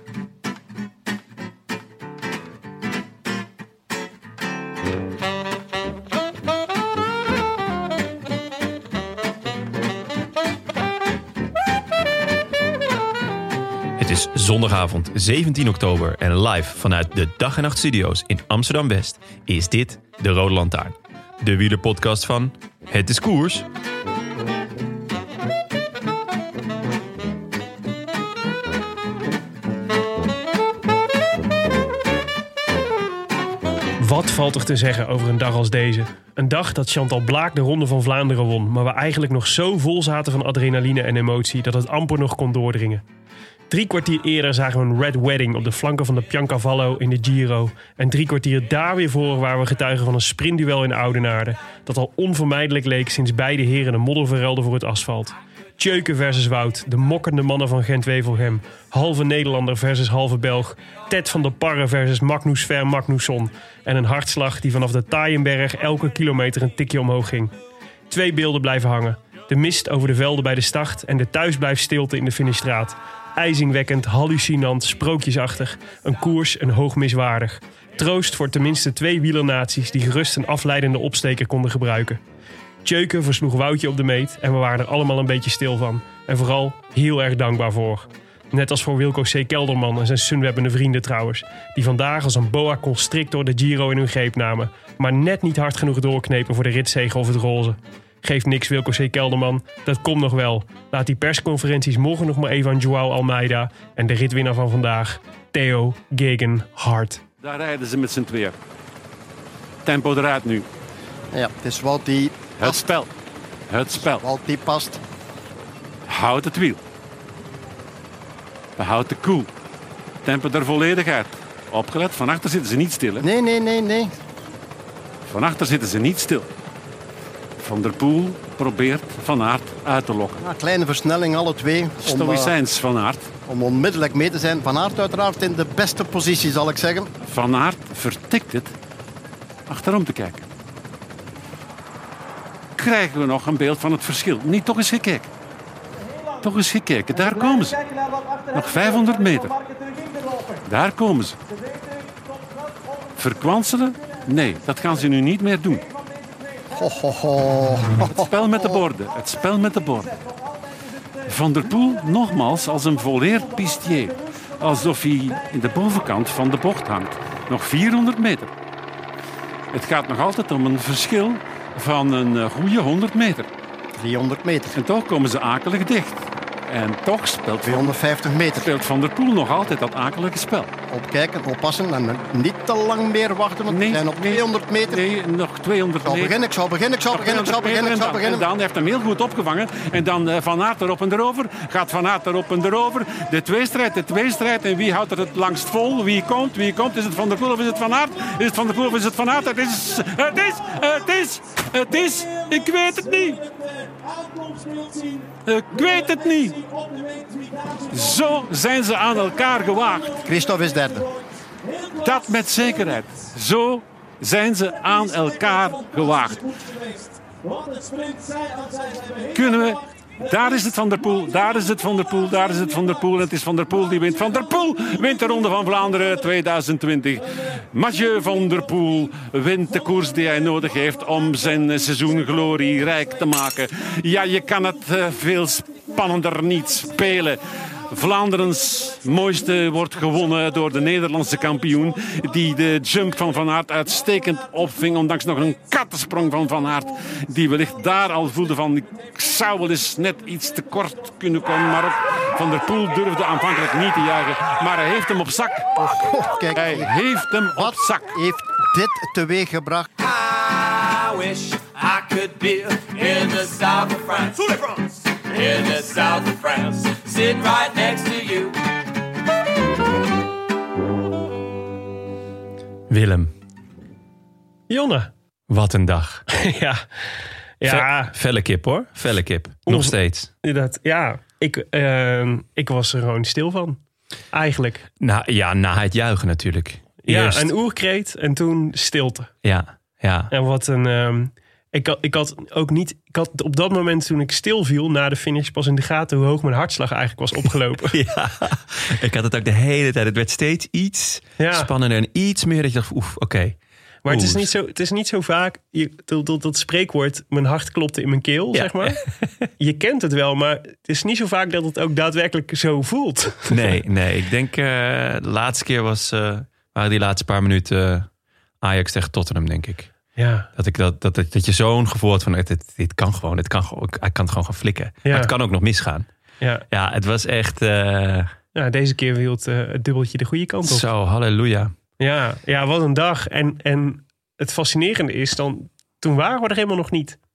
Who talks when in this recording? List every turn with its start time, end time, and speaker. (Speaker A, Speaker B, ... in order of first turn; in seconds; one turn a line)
Speaker A: 14.0-23.6
Speaker B: 34.0-43.0
Speaker B: 43.7-67.5
Speaker B: 68.1-82.2
Speaker B: 82.8-107.2
Speaker C: 107.4-108.5
Speaker C: 109.8-110.7
Speaker D: 111.3-112.8
Speaker C: 112.6-113.1
Speaker C: 113.7-114.2
Speaker D: 114.2-115.0
Speaker C: 116.1-116.8
Speaker C: 118.8-119.5
Speaker C: 120.2-123.2
Speaker D: 123.2-124.1
Speaker C: 125.2-126.5
Speaker C: 127.6-130.4
Speaker D: 130.4-132.5
Speaker C: 132.0-133.3
Speaker D: 133.4-137.1
Speaker C: 137.2-138.7
Speaker C: 139.7-140.4
Speaker C: 142.8-145.3
Speaker C: 146.4-147.8
Speaker C: 148.5-149.6
Speaker C: 150.6-151.3
Speaker C: 153.2-155.9
Speaker D: 156.7-158.3
Speaker C: 158.1-160.1
Speaker C: 161.3-168.5
Speaker C: 169.7-173.5
Speaker D: 173.9-174.8
Speaker C: 174.7-177.9
Speaker D: 177.6-178.7
Speaker C: 178.5-180.7
Speaker D: 180.9-185.1
Speaker C: 183.7-186.3
Speaker D: 186.0-188.4
Speaker C: 187.1-203.4
Speaker C: 205.4-206.7
Speaker C: 207.8-210.2
Speaker D: 210.2-211.1
Speaker C: 212.0-216.5
Speaker C: 219.3-255.7
Speaker D: 255.8-256.9
Speaker C: 256.5-258.1
Speaker D: 257.5-259.9
Speaker E: 260.0-268.6
Speaker A: 272.9-273.3
Speaker B: 274.7-275.1
Speaker A: 275.5-276.2
Speaker B: 276.3-276.8
Speaker B: 277.6-278.1
Speaker A: 277.6-280.3
Speaker B: 279.7-283.8
Speaker B: 284.3-284.9
Speaker A: 285.0-287.5
Speaker B: 287.1-289.3
Speaker A: 289.4-290.3
Speaker B: 290.3-297.9
Speaker A: 297.9-304.5
Speaker B: 301.4-301.7
Speaker B: 304.0-309.0
Speaker A: 308.5-309.1
Speaker B: 309.6-313.5
Speaker A: 313.5-318.1
Speaker A: 318.6-319.9
Speaker B: 320.1-320.5
Speaker A: 320.6-326.1
Speaker B: 325.0-325.3
Speaker A: 326.7-328.3
Speaker B: 328.5-330.9
Speaker A: 330.6-331.7
Speaker B: 332.0-337.2